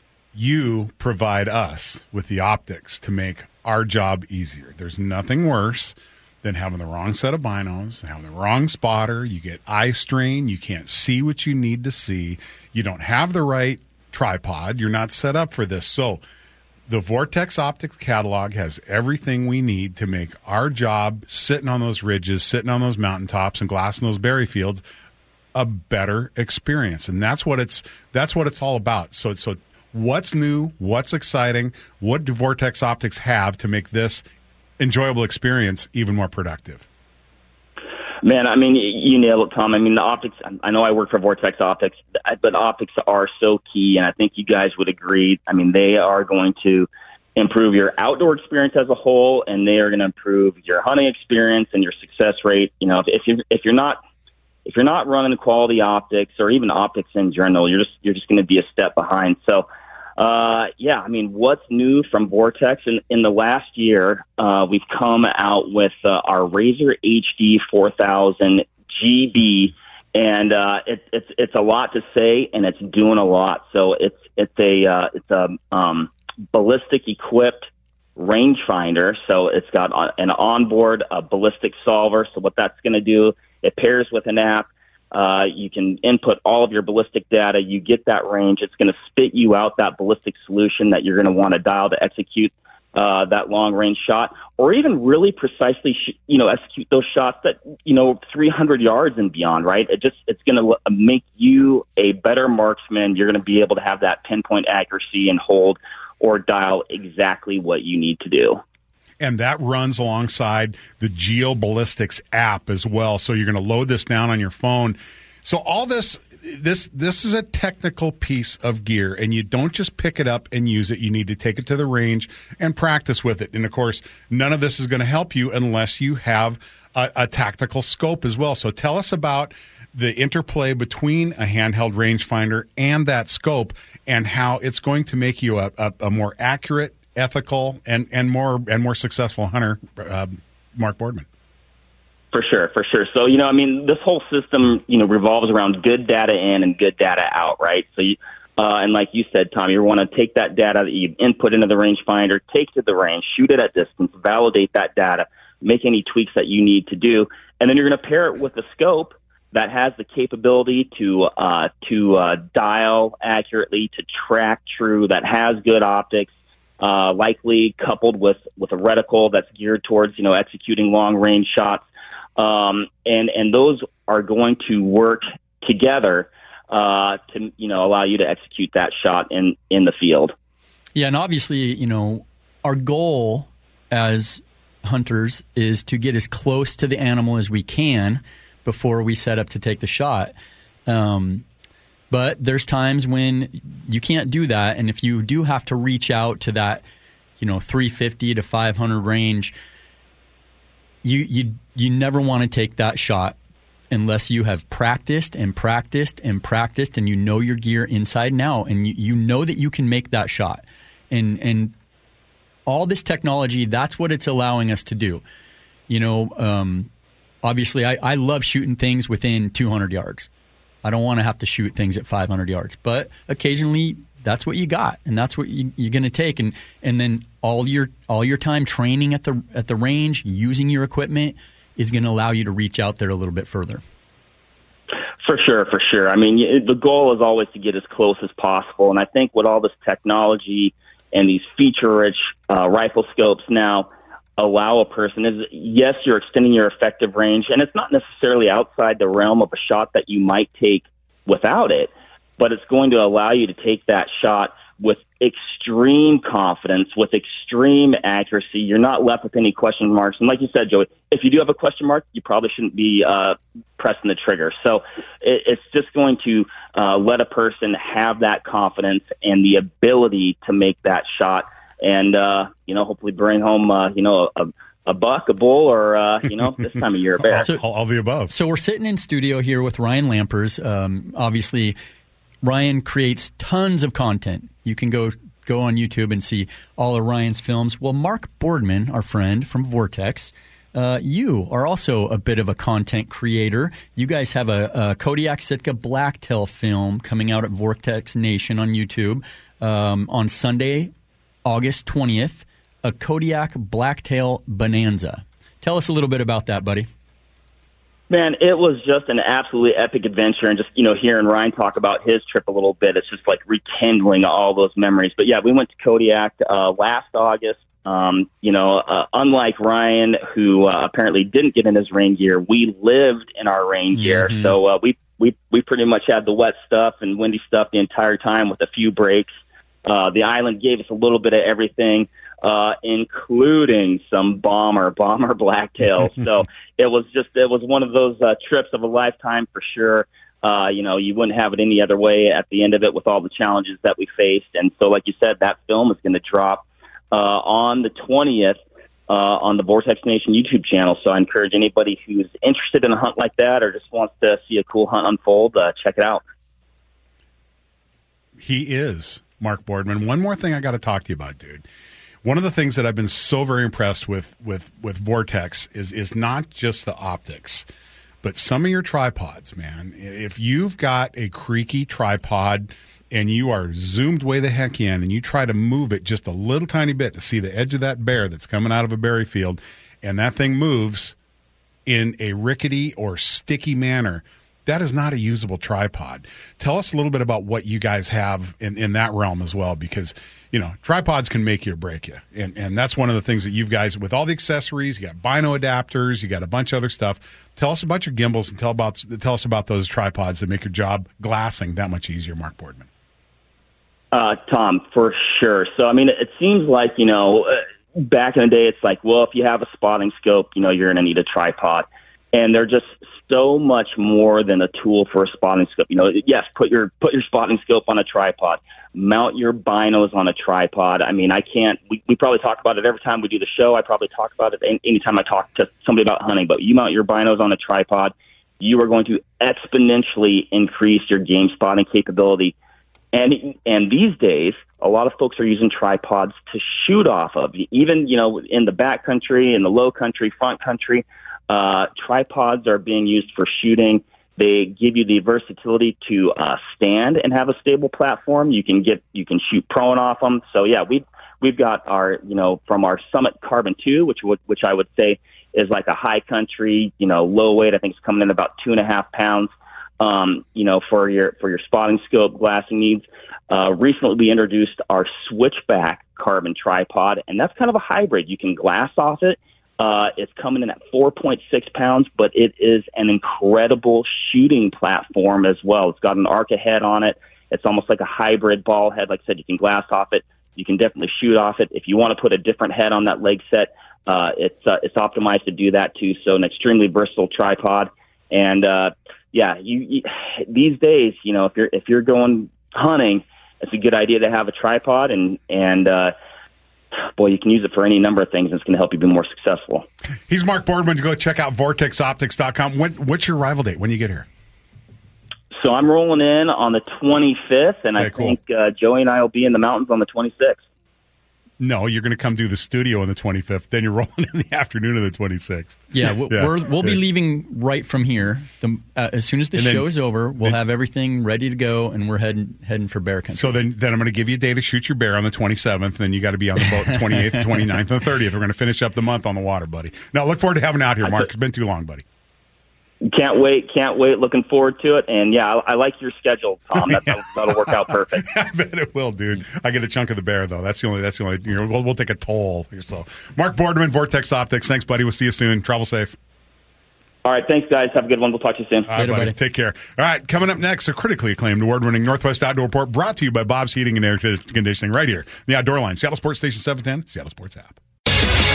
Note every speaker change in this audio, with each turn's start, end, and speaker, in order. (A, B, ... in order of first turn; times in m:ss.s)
0:00.3-0:16.2 A
0:16.9-0:24.8 A
0:25.5-0:34.2 A
0:34.8-0:36.8 A
0:38.2-0:54.0 B
0:54.6-0:59.6 B
1:00.2-1:48.6 B
1:49.2-2:21.3 A
2:22.3-3:00.3 B
3:00.9-3:10.3 C
3:10.9-3:11.4 C
3:12.1-3:16.8 C
3:17.4-3:19.5 C
3:21.0-3:23.4 C
3:23.9-3:31.7 C
3:32.6-3:35.2 C
3:35.9-3:36.9 C
3:37.4-3:40.3 C
3:40.8-3:53.8 C
3:55.2-4:37.5 B
4:37.2-4:38.3 A
4:38.3-4:41.8 C
4:42.4-5:00.9 C
5:01.4-5:06.9 C
5:08.1-5:29.3 B
5:23.9-5:24.5 C
5:29.8-5:56.2 B
5:58.4-6:01.6 A
6:02.2-6:07.6 A
6:08.2-6:21.2 A
6:21.8-6:42.9 A
6:44.1-7:12.5 B
7:13.1-8:16.1 B
8:17.1-8:19.8 B
8:20.3-8:24.3 A
8:25.5-8:30.6 B
8:28.0-8:28.4 A
8:31.6-8:37.0 A
8:35.9-8:43.6 C
8:39.5-8:40.6 A
8:43.3-8:52.0 A
8:46.6-8:47.5 C
8:53.0-8:58.3 B
8:58.2-9:06.2 A
9:07.2-9:08.9 B
9:08.9-9:17.8 A
9:09.0-9:09.3 C